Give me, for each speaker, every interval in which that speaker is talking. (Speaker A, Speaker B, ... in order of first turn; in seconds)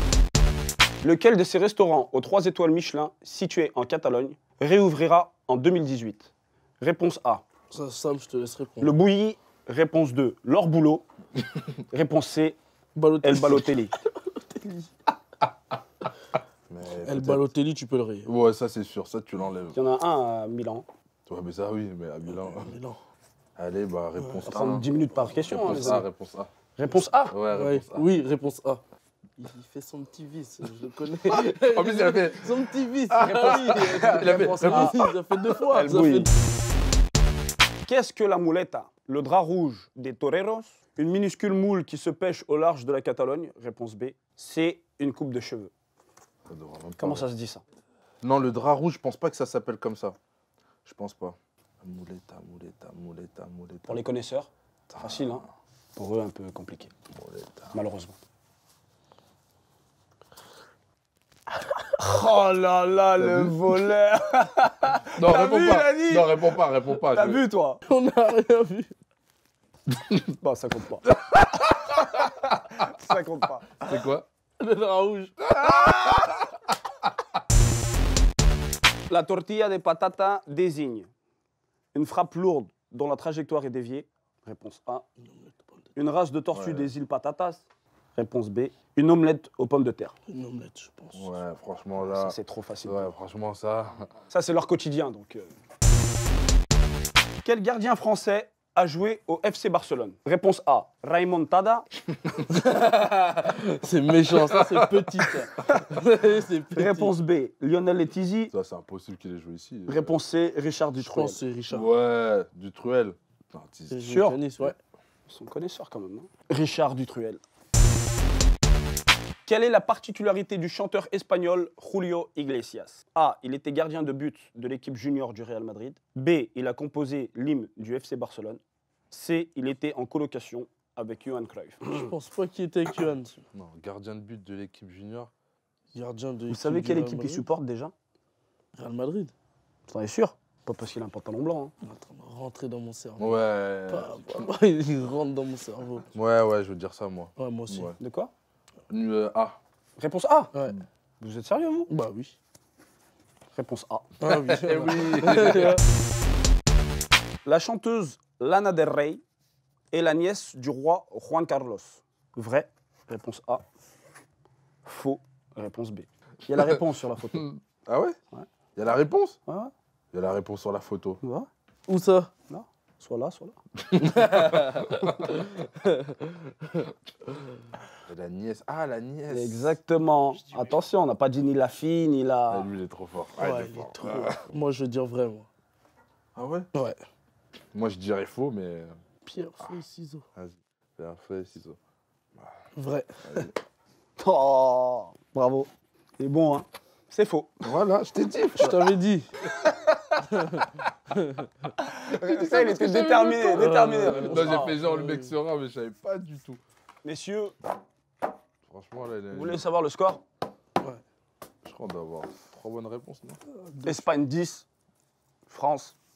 Speaker A: 1.0-6.3, 6.8-7.4, 8.8-11.0, 11.9-12.6, 13.2-13.9, 19.7-20.9, 24.4-26.1, 26.8-27.4, 33.1-35.0, 35.6-36.3, 37.9-45.7, 47.0-47.6, 53.9-54.5, 55.0-55.4, 56.0-56.9, 57.7-58.1, 61.9-67.8, 70.4-71.1, 72.2-73.8, 79.1-81.1, 81.9-85.0, 86.0-90.1, 92.0-93.1, 94.3-95.5, 97.4-101.9, 106.7-108.5, 109.9-111.4, 114.0-114.4, 115.3-117.4, 119.5-128.6, 129.1-132.1, 136.5-137.9, 139.9-141.7, 148.0-148.3, 150.0-150.5, 151.2-151.9, 153.5-154.2, 157.4-159.2, 159.9-163.6, 164.8-167.5, 169.4-169.7, 171.2-171.5, 172.5-173.6, 179.3-182.7, 184.0-184.3, 194.2-197.7, 199.5-200.1, 201.8-204.7, 207.0-207.5, 209.3-210.2, 213.8-214.7, 215.5-215.9
Speaker B: 7.7-8.9, 12.9-14.9, 16.9-18.3, 22.3-23.0, 24.2-24.6, 27.5-28.8, 29.4-36.3, 67.8-68.9, 74.6-75.5, 85.2-85.9, 90.3-91.3, 102.5-107.1, 111.0-111.9, 113.9-114.8, 131.9-133.4, 135.9-137.4, 138.7-139.3, 141.8-146.1, 147.3-148.0, 150.5-150.8, 151.9-152.4, 154.2-155.8, 171.9-172.3, 174.0-177.4, 183.4-185.5, 186.7-187.0, 189.2-190.2, 192.8-193.5, 198.6-199.3, 200.3-201.7, 203.6-205.3, 213.5-214.1
Speaker C: 16.7-17.4, 18.2-19.8, 21.3-22.8, 23.6-26.5, 27.3-28.1, 31.3-35.0, 46.5-47.2, 48.2-50.1, 50.8-54.0, 54.9-55.4, 57.1-57.8, 63.2-63.5, 65.2-67.4, 70.0-70.2, 71.3-72.5, 73.8-74.2, 75.4-76.4, 86.5-86.9, 91.1-94.1, 108.5-110.2, 111.7-114.0, 133.5-135.3, 143.2-144.5, 146.2-147.9, 148.9-149.6, 154.3-155.8, 167.3-168.2, 168.8-169.4, 170.1-171.2, 173.9-175.1, 178.1-179.7, 182.5-184.3, 186.3-186.7, 187.7-188.9, 190.3-191.8, 193.2-193.5, 197.6-198.8, 202.1-206.6, 208.6-209.6, 211.6-213.4